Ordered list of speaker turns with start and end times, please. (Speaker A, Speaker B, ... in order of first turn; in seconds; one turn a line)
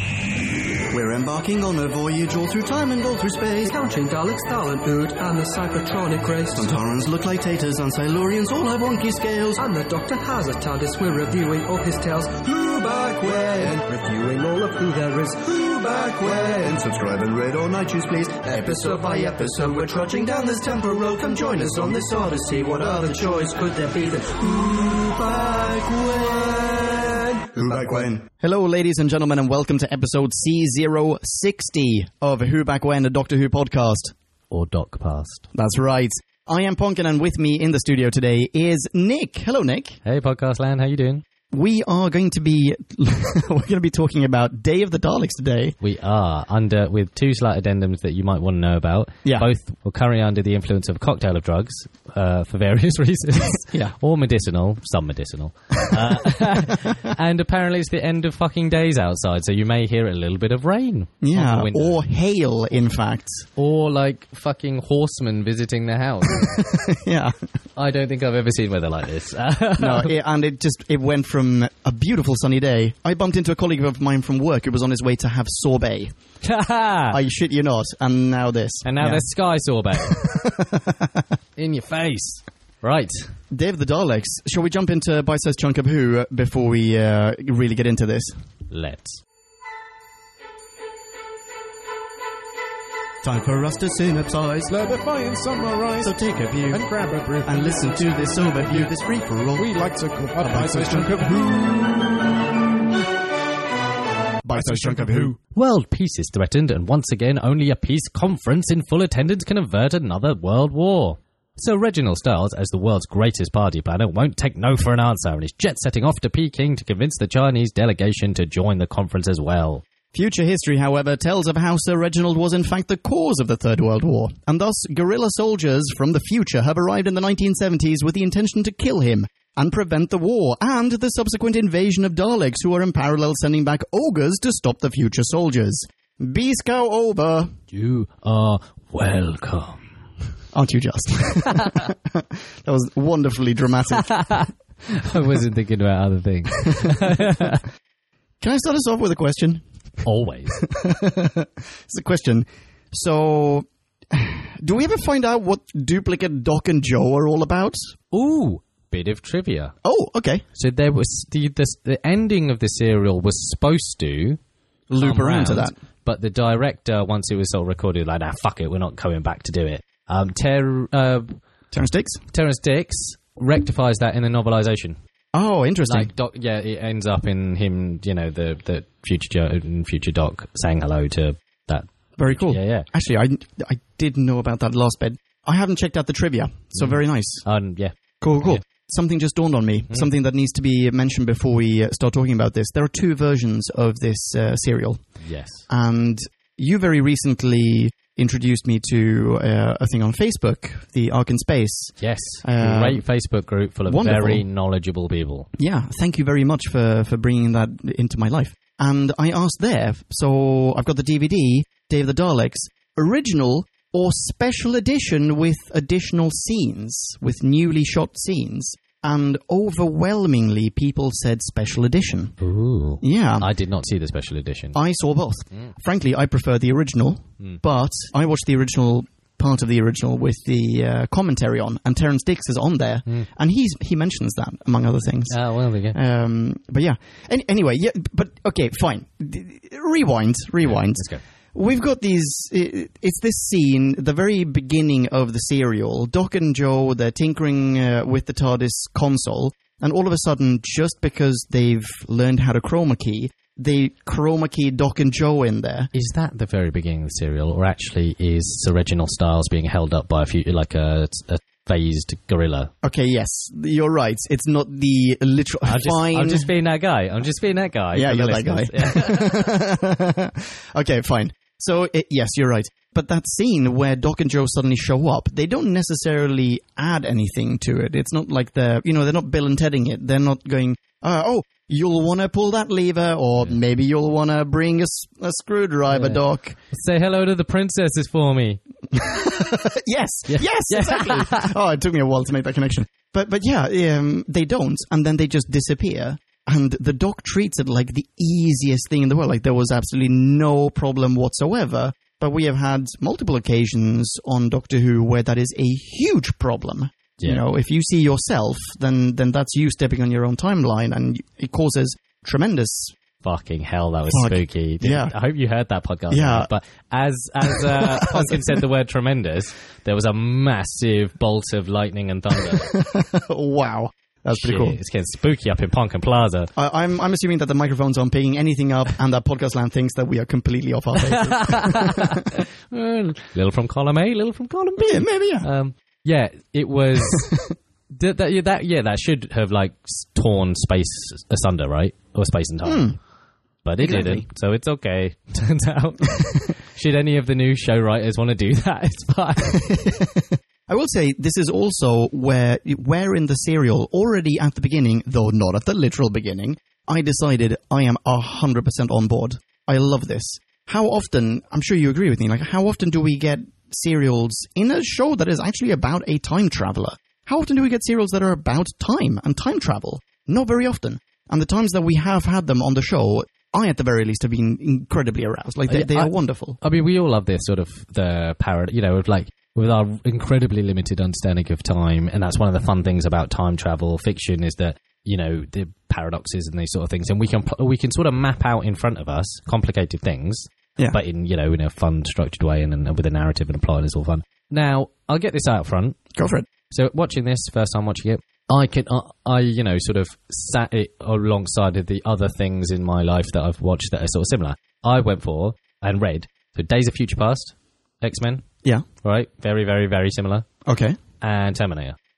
Speaker A: 0.9-3.7
Speaker B: 3.6-6.7
Speaker A: 6.5-9.6
Speaker B: 9.6-16.4
Speaker A: 12.9-14.2
Speaker A: 15.5-23.7
Speaker B: 18.4-27.5
Speaker A: 25.4-26.9
Speaker A: 27.5-34.1
Speaker C: 34.5-35.5
Speaker A: 35.5-40.0
Speaker C: 40.0-41.2
Speaker A: 41.5-45.8
Speaker C: 45.8-62.0
Speaker A: 53.6-53.9
Speaker A: 61.2-63.5
Speaker C: 63.6-66.6
Speaker A: 66.4-67.4
Speaker C: 67.8-70.1
Speaker A: 69.8-76.1
Speaker C: 76.4-77.2
Speaker A: 77.1-79.2
Speaker C: 78.8-80.2
Speaker A: 80.0-81.3
Speaker C: 81.6-83.3
Speaker A: 83.5-88.4
Speaker C: 88.7-89.2
Speaker A: 93.2-94.8
Speaker D: 94.7-96.2
Speaker A: 96.0-96.9
Speaker D: 96.7-98.9
Speaker A: 97.4-99.8
Speaker D: 99.5-101.9
Speaker A: 100.4-101.9
Speaker A: 104.4-105.3
Speaker D: 104.5-105.3
Speaker C: 105.5-119.8
Speaker A: 120.1-137.5
Speaker C: 137.7-139.8
Speaker A: 140.5-144.4
Speaker C: 144.0-147.6
Speaker A: 146.7-147.1
Speaker A: 148.4-149.6
Speaker C: 150.0-150.6
Speaker A: 150.6-157.9
Speaker C: 158.1-159.7
Speaker A: 159.8-160.4
Speaker C: 160.6-164.4
Speaker A: 164.9-165.7
Speaker C: 165.0-171.4
Speaker A: 171.7-172.2
Speaker C: 172.3-175.0
Speaker A: 175.3-176.1
Speaker C: 175.8-182.9
Speaker A: 182.2-187.4
Speaker C: 186.7-188.6
Speaker A: 188.2-195.1
Speaker C: 195.2-195.7
Speaker A: 195.7-203.0
Speaker C: 202.0-205.5
Speaker A: 203.9-204.4
Speaker A: 205.6-222.3
Speaker C: 222.4-224.8
Speaker A: 223.0-223.5
Speaker A: 224.7-235.4
Speaker C: 235.3-236.0
Speaker A: 235.9-255.9
Speaker C: 240.9-241.2
Speaker C: 255.9-262.7
Speaker A: 262.8-266.5
Speaker C: 265.6-269.6
Speaker A: 267.9-286.6
Speaker C: 285.9-288.6
Speaker A: 288.9-312.9
Speaker C: 290.3-291.5
Speaker C: 313.2-322.7
Speaker A: 314.1-315.1
Speaker A: 316.1-316.5
Speaker A: 317.4-318.4
Speaker A: 322.5-324.8
Speaker C: 324.3-326.5
Speaker A: 326.6-332.1
Speaker C: 331.1-337.3
Speaker A: 334.8-335.5
Speaker A: 337.0-337.5
Speaker C: 337.9-342.9
Speaker A: 342.6-343.0
Speaker C: 343.6-349.7
Speaker A: 343.8-344.2
Speaker A: 349.4-376.6
Speaker C: 375.7-396.0
Speaker A: 396.1-396.5
Speaker C: 396.7-408.4
Speaker C: 409.0-410.5
Speaker A: 410.6-411.0
Speaker C: 411.2-411.9